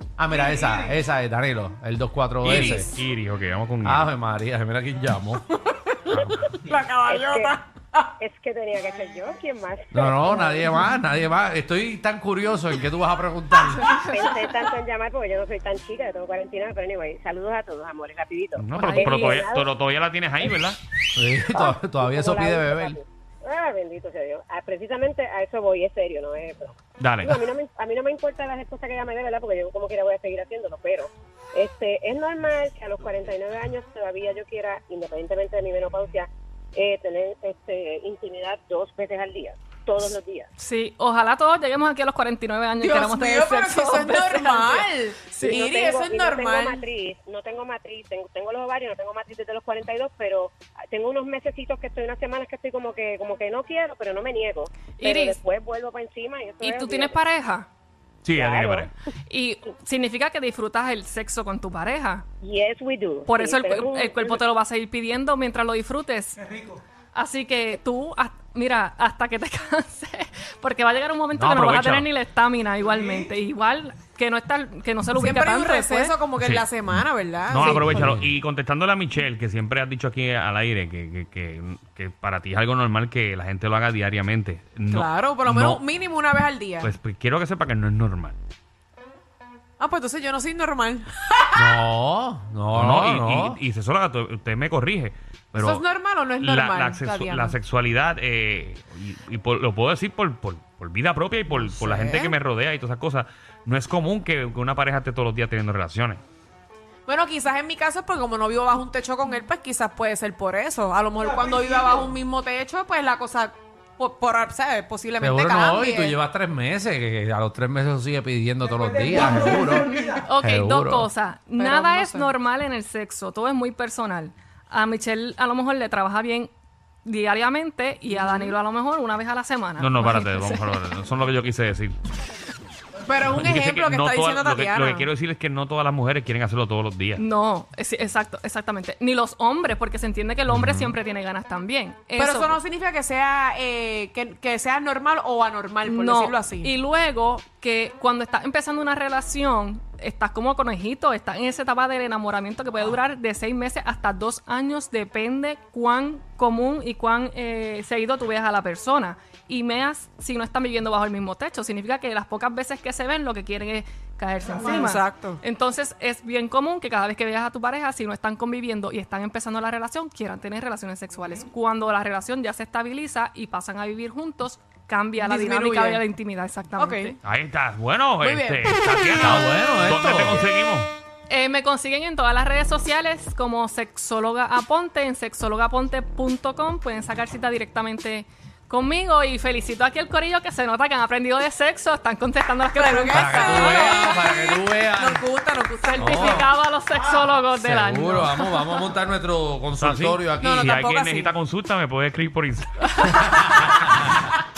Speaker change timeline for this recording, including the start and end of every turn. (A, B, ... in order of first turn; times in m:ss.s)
0:00.2-0:03.0 A
0:02.4-0:04.1 B
0:03.8-0:05.4 A
0:05.7-0:08.1 C
0:06.1-0:06.5 B
0:07.0-0:07.6 D
0:08.2-0:10.9 D
0:09.9-0:14.0 A
0:13.9-0:19.7 D
0:18.6-0:20.8 B
0:18.8-0:19.4 E
0:21.2-0:23.0 A
0:21.5-0:40.5 D
0:27.0-0:27.4 B
0:40.6-0:45.7 E
0:42.8-0:46.8 C
0:45.4-0:57.2 D
0:55.0-0:55.4 E
0:56.6-0:57.7 E
0:58.2-0:58.9 B
0:58.3-0:58.9 D
0:59.3-1:02.2 E
1:02.4-1:04.4 D
1:03.2-1:06.4 E
1:07.1-1:16.2 E
1:11.4-1:12.1 B
1:15.2-1:18.2 C
1:17.5-1:25.8 B
1:17.6-1:18.3 A
1:24.9-1:26.9 C
1:26.8-1:28.4 B
1:29.8-1:31.8 C
1:31.5-1:33.6 A
1:32.7-1:35.8 B
1:35.5-1:37.6 C
1:36.4-1:46.2 B
1:41.5-1:42.4 C
1:47.1-1:56.2 C
1:55.2-2:01.1 A
2:00.0-2:06.5 E
2:01.6-2:02.3 C
2:07.0-2:10.8 E
2:08.1-2:08.5 C
2:09.8-2:11.9 B
2:13.0-2:15.1 C
2:13.3-2:17.2 B
2:17.2-2:22.6 E
2:20.5-2:20.9 A
2:22.2-2:26.8 C
2:25.8-2:57.2 E
2:44.6-2:45.4 C
2:55.2-2:56.1 C
2:56.8-2:57.2 C
2:57.2-3:00.9 B
2:58.2-2:59.4 C
2:59.2-3:00.5 A
3:01.3-3:14.0 E
3:12.7-3:16.4 C
3:13.1-3:15.2 A
3:15.8-3:18.8 E
3:16.0-3:16.5 A
3:17.6-3:20.7 A
3:19.8-3:23.0 B
3:20.4-3:21.3 C